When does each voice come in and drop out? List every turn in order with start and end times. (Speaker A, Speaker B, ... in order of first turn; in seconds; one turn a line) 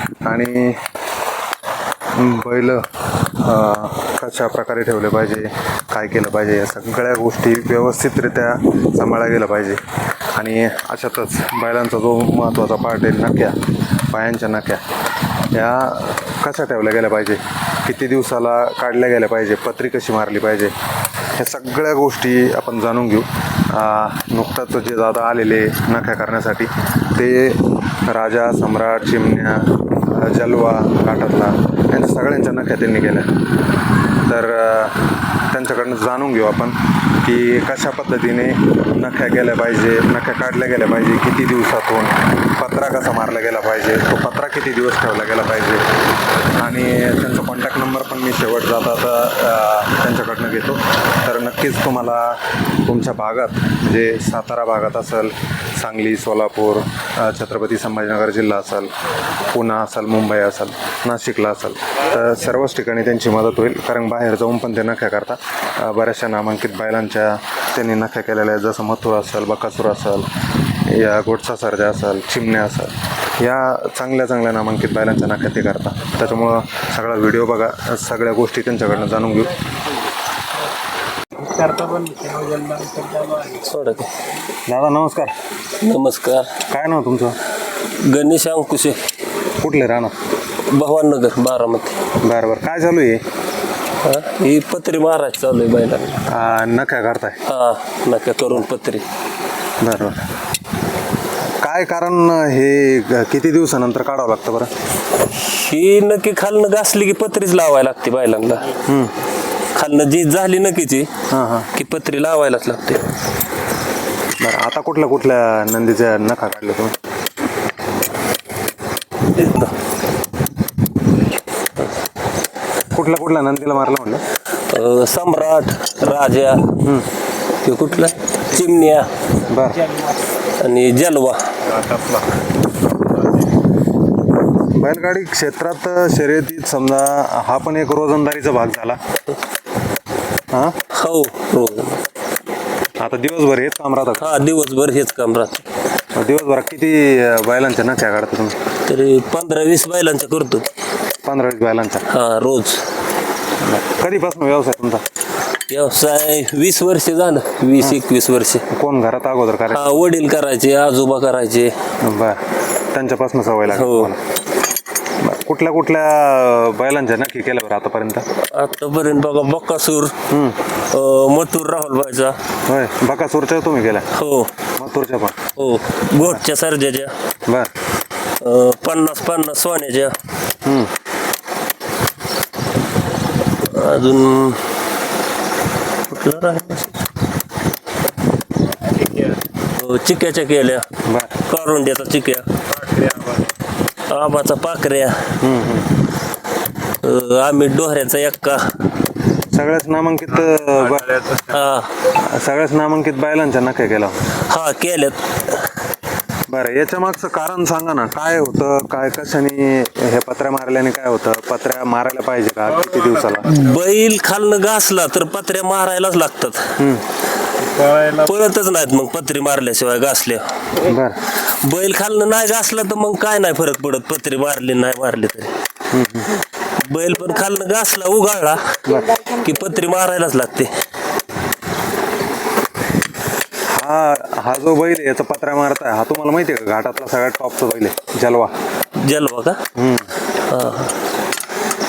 Speaker A: 0.2-0.8
Speaker A: 2.2-9.8
Speaker A: 10.3-14.8
Speaker A: 15.5-20.7
Speaker A: 21.4-33.4
Speaker A: 34.2-45.9
Speaker A: 46.5-79.6
Speaker B: 81.4-83.6
Speaker C: 83.5-84.3
Speaker A: 84.7-85.3
Speaker C: 85.8-86.6
Speaker A: 86.7-87.4
Speaker C: 87.8-89.0
Speaker A: 89.6-90.2
Speaker C: 90.6-92.1
Speaker A: 92.2-93.2
Speaker C: 94.0-96.3
Speaker A: 96.2-97.4
Speaker C: 97.5-99.0
Speaker A: 99.8-100.2
Speaker A: 101.6-104.7
Speaker C: 105.4-108.8
Speaker A: 108.8-109.1
Speaker C: 109.8-111.1
Speaker A: 111.3-111.7
Speaker C: 111.7-113.1
Speaker A: 114.4-117.0
Speaker C: 119.3-119.7
Speaker A: 122.9-124.2
Speaker C: 124.7-126.8
Speaker A: 126.8-127.1
Speaker C: 127.6-129.1
Speaker A: 129.5-129.9
Speaker C: 130.6-131.6
Speaker B: 131.8-132.3
Speaker A: 134.6-139.0
Speaker A: 140.5-140.8
Speaker C: 140.9-142.0
Speaker A: 143.0-144.5
Speaker C: 144.2-145.7
Speaker A: 146.2-148.6
Speaker C: 148.8-150.7
Speaker A: 151.2-152.1
Speaker C: 152.1-152.9
Speaker A: 153.6-155.0
Speaker C: 155.7-158.7
Speaker A: 158.7-160.0
Speaker C: 159.7-161.8
Speaker A: 162.0-162.4
Speaker A: 162.9-164.2
Speaker C: 163.7-164.1
Speaker A: 165.2-168.3
Speaker C: 168.4-170.2
Speaker A: 170.3-170.6
Speaker C: 170.9-172.4
Speaker A: 172.7-174.1
Speaker C: 174.1-174.5
Speaker A: 174.8-175.4
Speaker C: 175.6-177.2
Speaker C: 178.4-180.2
Speaker A: 180.6-180.9
Speaker C: 183.6-184.7
Speaker C: 186.1-187.0
Speaker B: 189.1-189.3
Speaker C: 189.6-190.9
Speaker A: 191.1-191.4
Speaker C: 191.4-192.6
Speaker B: 192.8-193.5
Speaker C: 194.1-195.4
Speaker A: 195.4-195.9
Speaker C: 197.0-198.9
Speaker A: 199.5-201.2
Speaker B: 200.9-201.4
Speaker C: 201.4-201.9
Speaker A: 202.1-204.2
Speaker C: 204.5-205.7
Speaker A: 206.5-213.5
Speaker C: 213.4-216.8
Speaker A: 216.8-217.0
Speaker B: 217.7-218.1
Speaker C: 217.9-225.5
Speaker A: 220.8-221.2
Speaker A: 225.9-226.3
Speaker C: 226.8-230.7
Speaker A: 228.8-229.2
Speaker A: 233.7-238.5
Speaker C: 239.0-239.6
Speaker A: 239.8-240.1
Speaker C: 240.5-241.0